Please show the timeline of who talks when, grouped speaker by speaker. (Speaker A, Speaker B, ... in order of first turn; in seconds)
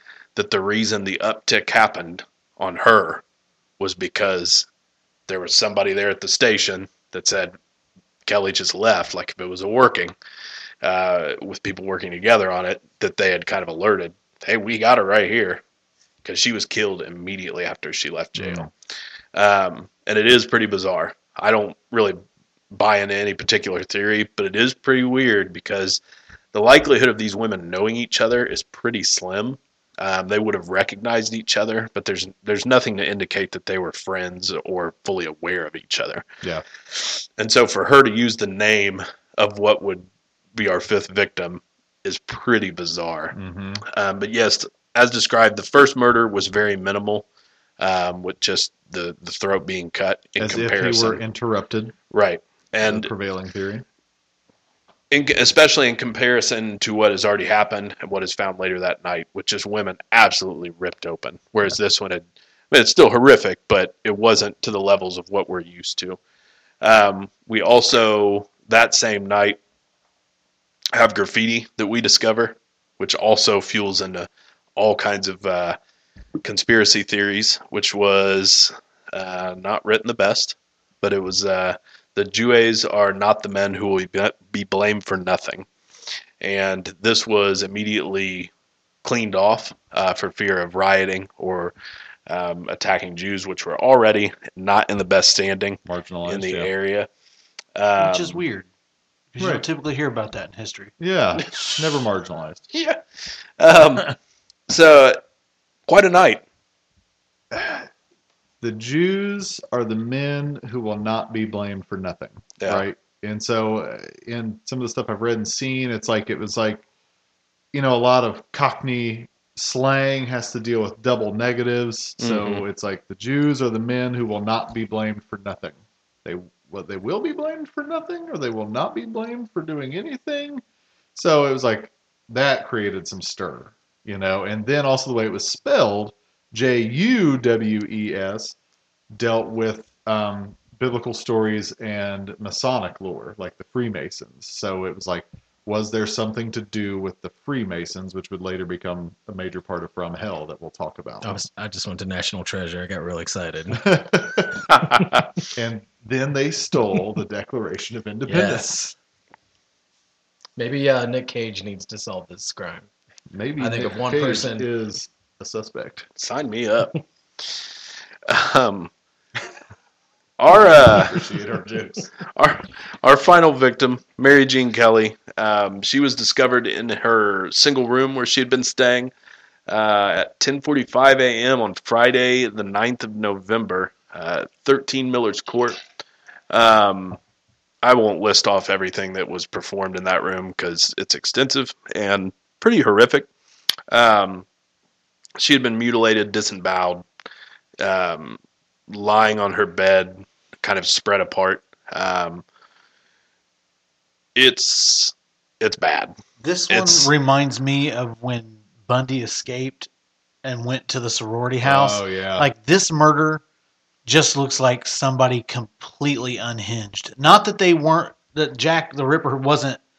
Speaker A: 0.3-3.2, 3.8-4.7, 5.3-7.5, 8.2-10.1, 10.8-15.6, 16.2-18.7, 19.4-22.2, 22.7-26.0, 26.5-36.2, 36.9-43.4, 43.9-47.3, 47.8-51.2, 52.1-53.1, 55.1-66.2, 66.8-69.6, 70.9-75.8, 76.4-85.7, 86.4-88.5, 89.0-91.7, 92.3-97.1, 97.8-98.4, 102.7-103.0, 103.6-104.1, 104.7-105.2, 105.9-106.4, 112.6-112.8, 122.2-122.6, 154.7-155.0, 166.2-167.0, 168.3-168.9, 170.4-171.2, 172.3-179.1, 179.7-185.8, 186.5-187.2, 187.8-193.3, 193.9-194.5, 195.4-197.1, 197.8-202.4, 204.3-206.1, 206.7-207.1
Speaker B: 18.4-18.7, 43.3-43.8, 50.4-52.0, 52.8-53.9, 95.9-96.7, 99.4-99.6, 101.0-102.7, 107.5-107.9, 108.6-116.8, 117.7-130.6, 131.2-138.6, 139.1-151.4, 153.7-154.7, 155.6-159.0, 163.3-166.1, 170.5-172.1, 211.6-212.5
Speaker C: 98.0-98.7, 99.3-100.9, 206.4-209.9, 210.4-213.4, 214.1-219.8
Speaker D: 151.2-153.9, 158.3-158.7, 160.6-162.9, 163.6-164.7